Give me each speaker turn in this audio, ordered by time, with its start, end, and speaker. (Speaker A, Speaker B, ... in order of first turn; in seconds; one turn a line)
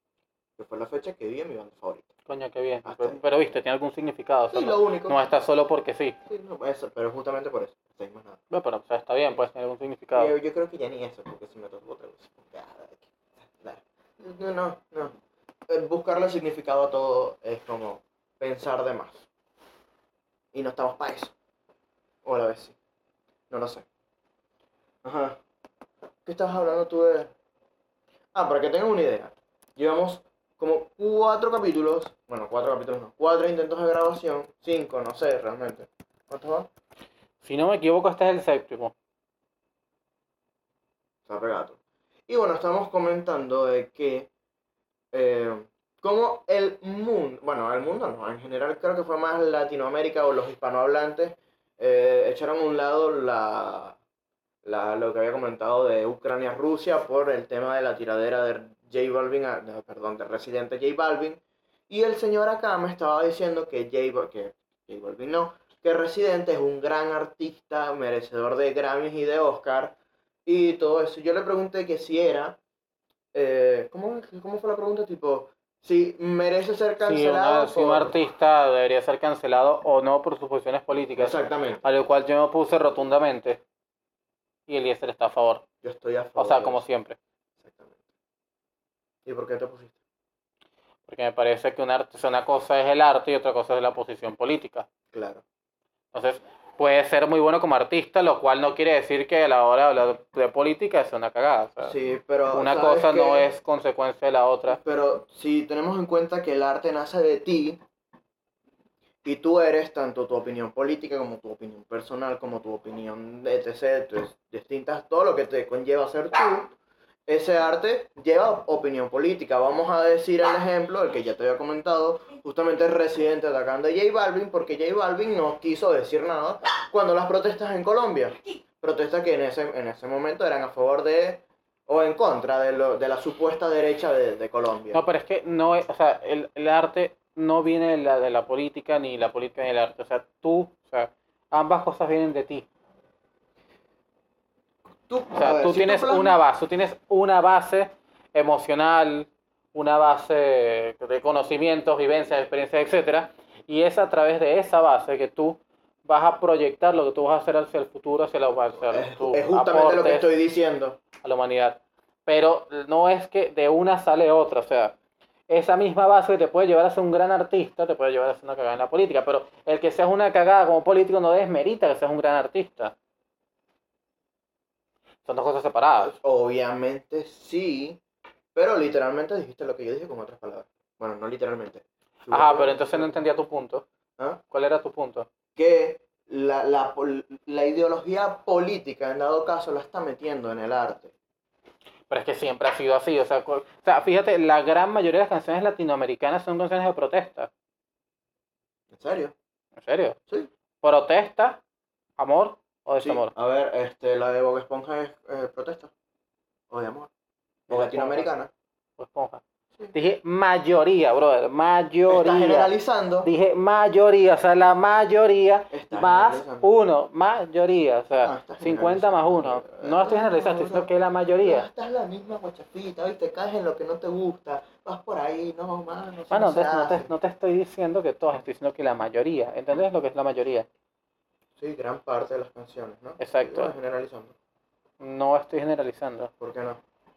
Speaker A: 0.6-2.1
Speaker B: 2.3-6.2
Speaker A: 2.8-3.2
Speaker A: 4.5-5.2
Speaker A: 6.3-8.4
Speaker B: 8.5-10.3
Speaker A: 10.2-15.1
Speaker A: 15.7-19.2
Speaker A: 20.5-21.3
Speaker A: 22.2-22.8
Speaker A: 23.5-23.9
Speaker A: 25.0-25.4
Speaker A: 26.2-27.3
Speaker A: 28.3-36.7
Speaker B: 37.4-38.9
Speaker A: 41.2-44.3
Speaker A: 45.1-54.0
Speaker A: 54.6-72.6
Speaker A: 73.3-78.1
Speaker B: 77.0-83.6
Speaker A: 81.2-81.8
Speaker B: 84.7-85.6
Speaker A: 85.8-86.8
Speaker B: 86.4-87.2
Speaker A: 87.6-88.0
Speaker A: 89.2-90.0
Speaker B: 91.1-94.9
Speaker A: 95.1-95.4
Speaker B: 96.1-101.9
Speaker A: 101.8-103.5
Speaker B: 102.5-104.8
Speaker A: 104.7-107.8
Speaker A: 109.2-116.7
Speaker A: 117.3-135.0
Speaker B: 134.9-142.7
Speaker A: 145.1-146.4
Speaker B: 145.3-160.3
Speaker A: 158.9-161.0
Speaker B: 161.2-164.9
Speaker B: 165.5-172.9
Speaker B: 175.2-176.1
Speaker A: 176.0-178.0
Speaker A: 178.5-183.1
Speaker B: 182.3-183.8
Speaker B: 184.5-185.3
Speaker A: 185.6-191.1
Speaker B: 192.1-197.5
Speaker A: 198.9-199.3
Speaker B: 199.8-200.2
Speaker B: 200.8-201.6
Speaker B: 202.2-203.3
Speaker A: 203.0-205.9
Speaker A: 206.7-207.1
Speaker B: 207.7-208.3
Speaker A: 207.7-208.5
Speaker B: 209.0-212.7
Speaker A: 212.1-213.3
Speaker B: 213.2-221.7
Speaker A: 215.7-216.7
Speaker A: 218.2-220.9
Speaker A: 221.4-227.1
Speaker B: 226.3-230.7
Speaker A: 231.6-234.3
Speaker B: 233.2-233.7
Speaker B: 235.0-236.3
Speaker A: 236.4-236.8